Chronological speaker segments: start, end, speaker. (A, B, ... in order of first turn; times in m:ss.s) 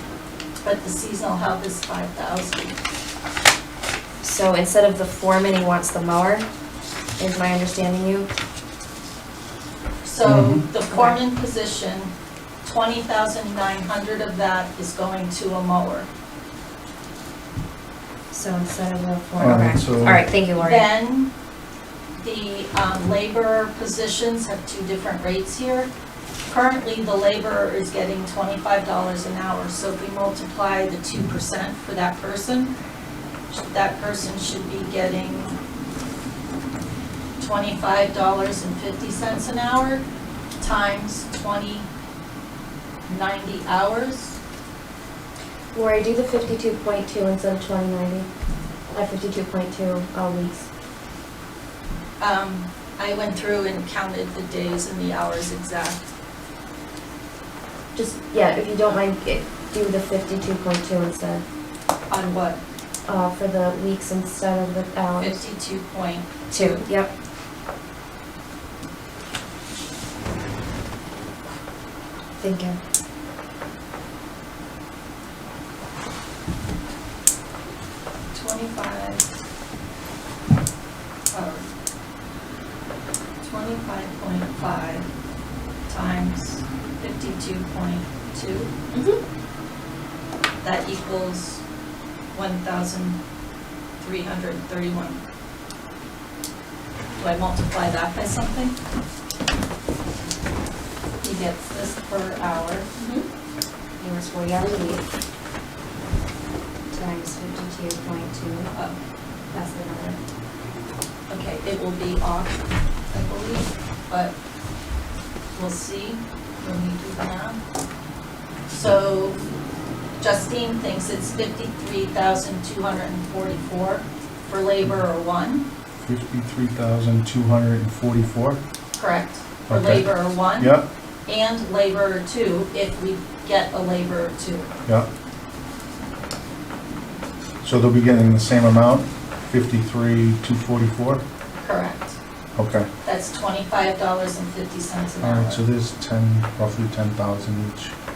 0:00.6-0:02.8 A
0:04.2-0:06.4 B
0:07.2-0:08.3 B
0:10.0-0:12.1 A
0:10.2-0:10.6 C
0:10.9-0:11.2 B
0:12.6-0:16.1 A
0:18.3-0:20.9 B
0:19.4-0:20.3 C
0:20.5-0:21.3 A
0:22.2-0:25.9 A
0:26.5-0:32.7 A
0:33.5-0:35.6 A
0:37.4-0:40.0 A
0:40.6-0:41.9 A
0:43.1-0:44.4 A
0:45.7-0:48.3 B
0:48.9-0:50.7 B
0:52.2-0:56.1 A
0:57.9-1:01.4 B
1:02.1-1:02.6 A
1:03.0-1:05.4 B
1:05.2-1:06.8 A
1:06.5-1:07.1 B
1:12.4-1:12.8 B
1:18.3-1:19.2 A
1:21.3-1:21.7 A
1:23.4-1:25.1 A
1:25.9-1:28.7 A
1:28.9-1:29.2 B
1:30.6-1:31.6 A
1:32.3-1:33.2 A
1:34.0-1:35.2 A
1:37.2-1:38.8 A
1:41.2-1:42.9 A
1:43.0-1:43.2 B
1:44.0-1:45.0 B
1:46.9-1:48.7 B
1:49.5-1:50.2 B
1:51.3-1:52.6 A
1:53.1-1:54.3 A
1:55.5-1:57.6 A
1:58.7-1:59.4 A
2:00.2-2:05.7 A
2:06.0-2:08.6 C
2:09.0-2:10.8 A
2:09.7-2:10.9 C
2:11.3-2:14.7 A
2:17.6-2:21.2 C
2:21.6-2:22.2 A
2:22.6-2:22.9 C
2:23.0-2:25.6 A
2:25.2-2:27.9 C